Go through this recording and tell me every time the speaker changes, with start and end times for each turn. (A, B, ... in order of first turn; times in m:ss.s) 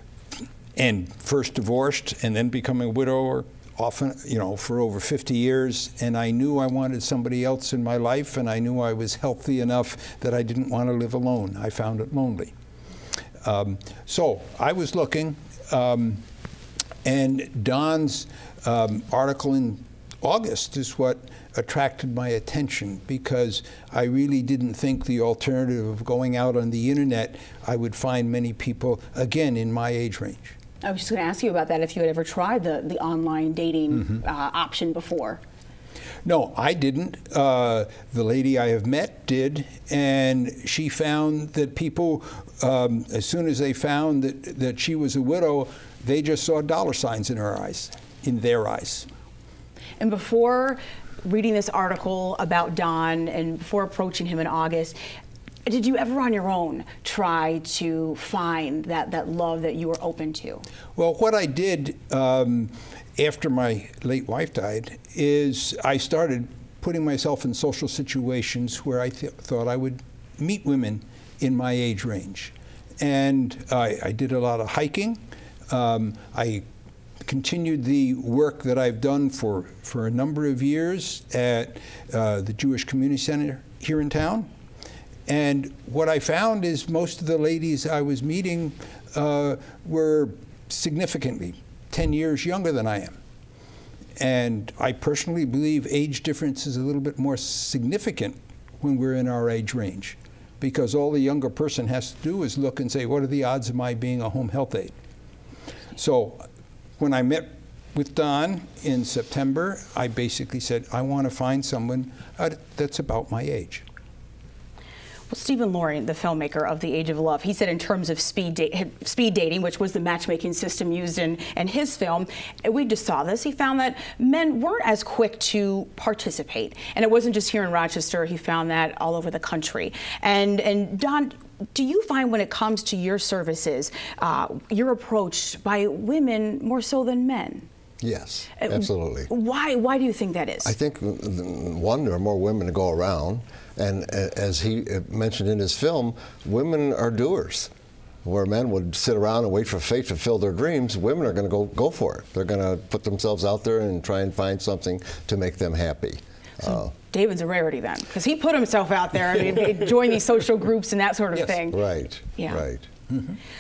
0:00.8-0:12.5 A
0:13.4-0:16.2 A
0:17.0-0:30.6 A
0:30.8-0:35.4 B
0:36.2-0:49.1 A
0:50.0-0:55.0 B
0:55.7-1:00.7 B
1:01.0-1:16.6 A
1:17.2-1:24.5 A
1:25.3-1:33.2 A
1:34.2-1:44.9 A
1:46.0-1:46.4 A
1:47.0-1:53.8 A
1:55.3-2:17.7 B
2:18.0-2:19.3 C
2:18.6-2:20.7 B
2:20.6-2:27.7 C
2:28.2-2:36.9 C
2:37.0-2:41.8 B
2:41.7-2:42.9 C
2:42.4-2:42.6 B